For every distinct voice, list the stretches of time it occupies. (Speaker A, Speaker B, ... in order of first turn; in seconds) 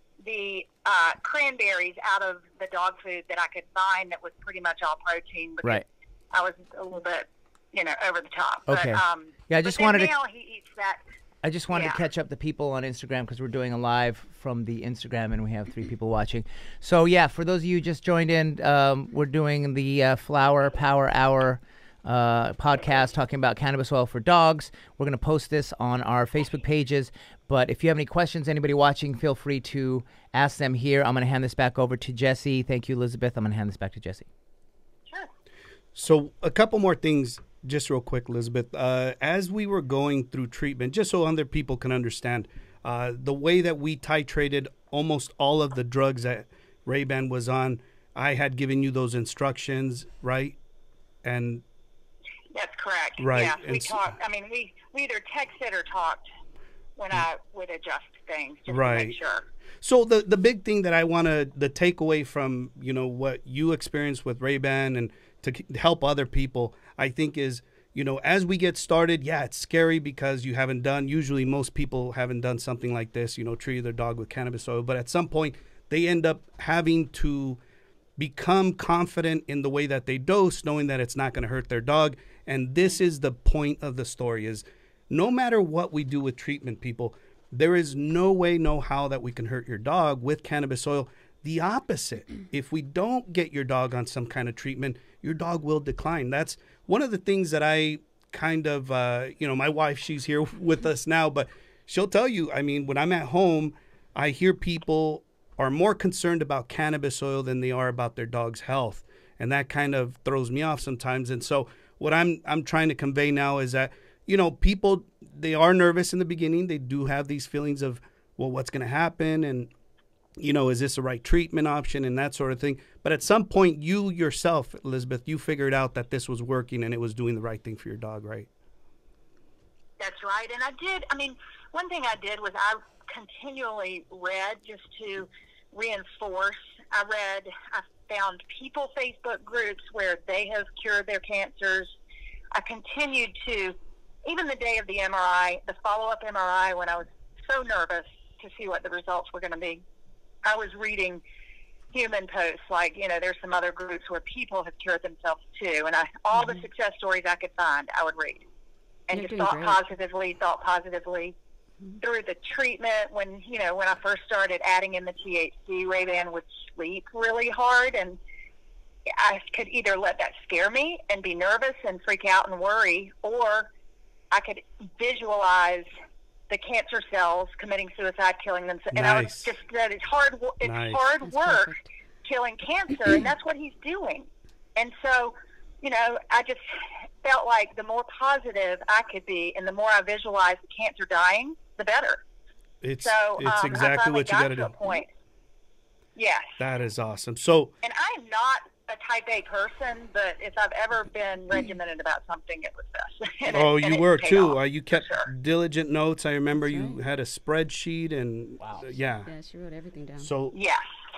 Speaker A: 0.2-11.0, 11.7-12.0, 52.5-56.2, 57.0-59.4, 130.0-141.9, 142.5-149.8, 150.4-151.2, 151.9-158.4, 159.1-161.3, 162.0-168.2, 169.1-173.7, 174.3-175.9, 176.5-181.7, 182.2-192.2, 193.0-195.1, 196.1-196.6, 197.8-205.3, 210.5-210.9
Speaker B: 8.7-10.1, 11.4-34.3
Speaker C: 36.0-50.5, 51.2-51.6, 53.2-54.0, 58.7-59.1, 59.8-77.6, 78.2-119.7, 120.4-128.5, 178.9-179.5, 180.6-181.0, 192.8-195.0, 196.6-197.7, 203.5-209.3, 210.2-210.5
Speaker D: 159.1-159.8, 181.2-181.9, 206.6-207.0, 209.2-210.3